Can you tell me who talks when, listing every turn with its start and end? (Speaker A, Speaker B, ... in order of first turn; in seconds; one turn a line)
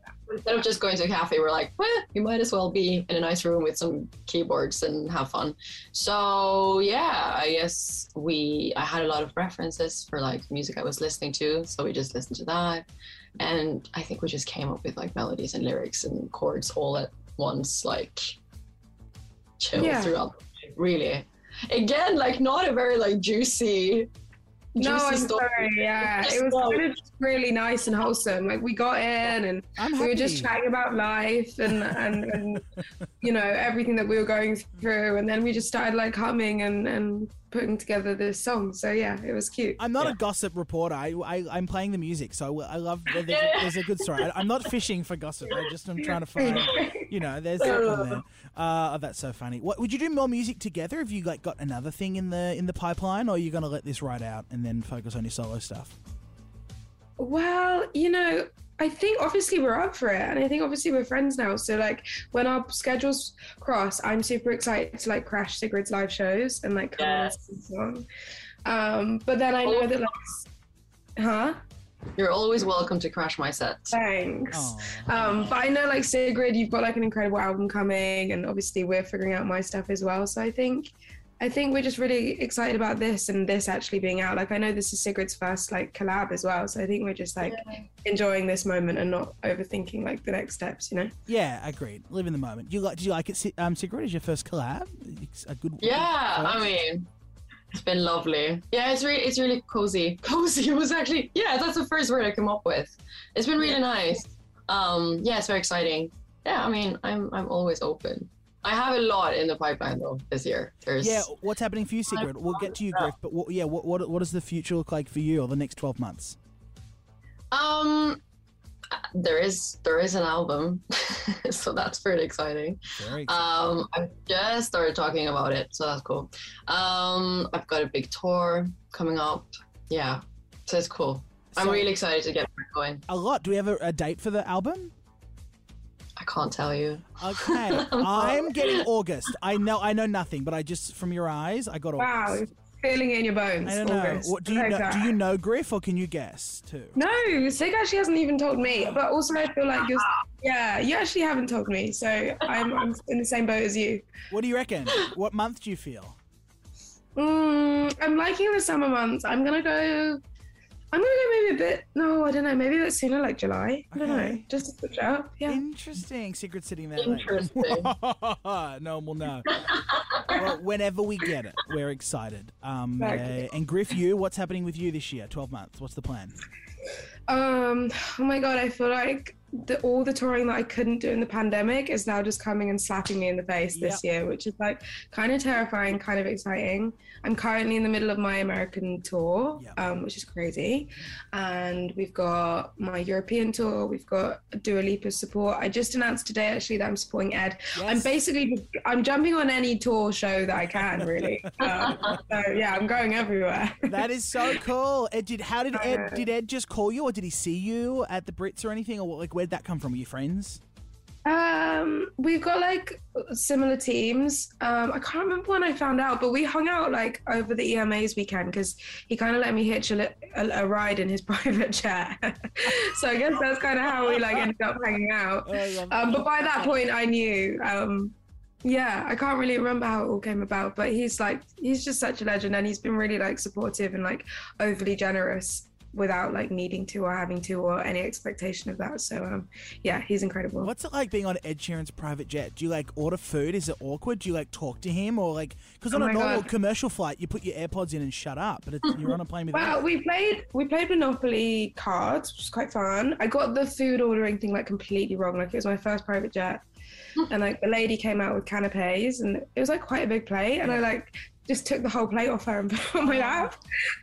Speaker A: 0.3-12.9
Speaker A: 13.4-18.4
Speaker A: 19.6-24.1
Speaker B: 19.7-20.2
Speaker B: 24.8-32.6
Speaker A: 24.8-26.9
Speaker C: 29.8-30.5
Speaker C: 31.8-32.8
Speaker B: 33.2-39.8
Speaker C: 39.8-56.0
Speaker A: 43.1-44.3
Speaker B: 46.4-47.1
Speaker A: 47.6-48.2
Speaker B: 57.2-68.0
Speaker A: 67.0-67.3
Speaker B: 68.7-70.5
Speaker A: 69.7-70.0
Speaker B: 71.2-71.6
Speaker A: 72.2-74.0
Speaker B: 73.9-80.9
Speaker C: 74.5-75.2
Speaker B: 81.4-91.1
Speaker A: 87.4-87.8
Speaker C: 91.3-96.8
Speaker A: 95.8-97.1
Speaker A: 97.7-111.3
Speaker C: 111.0-116.4
Speaker A: 112.1-113.1
Speaker A: 117.5-118.2
Speaker A: 118.9-133.0
Speaker C: 123.0-123.5
Speaker C: 131.5-131.9
Speaker C: 133.1-134.9
Speaker A: 136.2-138.8
Speaker C: 137.2-142.4
Speaker B: 142.0-145.2
Speaker C: 143.7-147.0
Speaker B: 146.9-154.1
Speaker C: 148.7-149.0
Speaker A: 152.5-152.8
Speaker C: 154.3-156.2
Speaker B: 157.2-160.2
Speaker B: 160.9-165.6
Speaker C: 163.9-164.5
Speaker C: 165.5-169.5
Speaker A: 167.0-167.9
Speaker A: 169.5-170.4
Speaker C: 170.3-176.4
Speaker B: 173.0-173.5
Speaker B: 177.3-203.9
Speaker C: 183.7-184.0
Speaker C: 197.8-198.2
Speaker C: 200.6-201.5
Speaker C: 203.9-210.6
Speaker B: 205.7-206.3
Speaker B: 211.3-240.7
Speaker C: 224.1-224.5
Speaker C: 225.4-226.7
Speaker C: 240.6-249.8
Speaker B: 245.9-246.5
Speaker B: 249.5-256.6
Speaker B: 257.3-263.6
Speaker C: 260.6-260.9
Speaker C: 263.0-263.6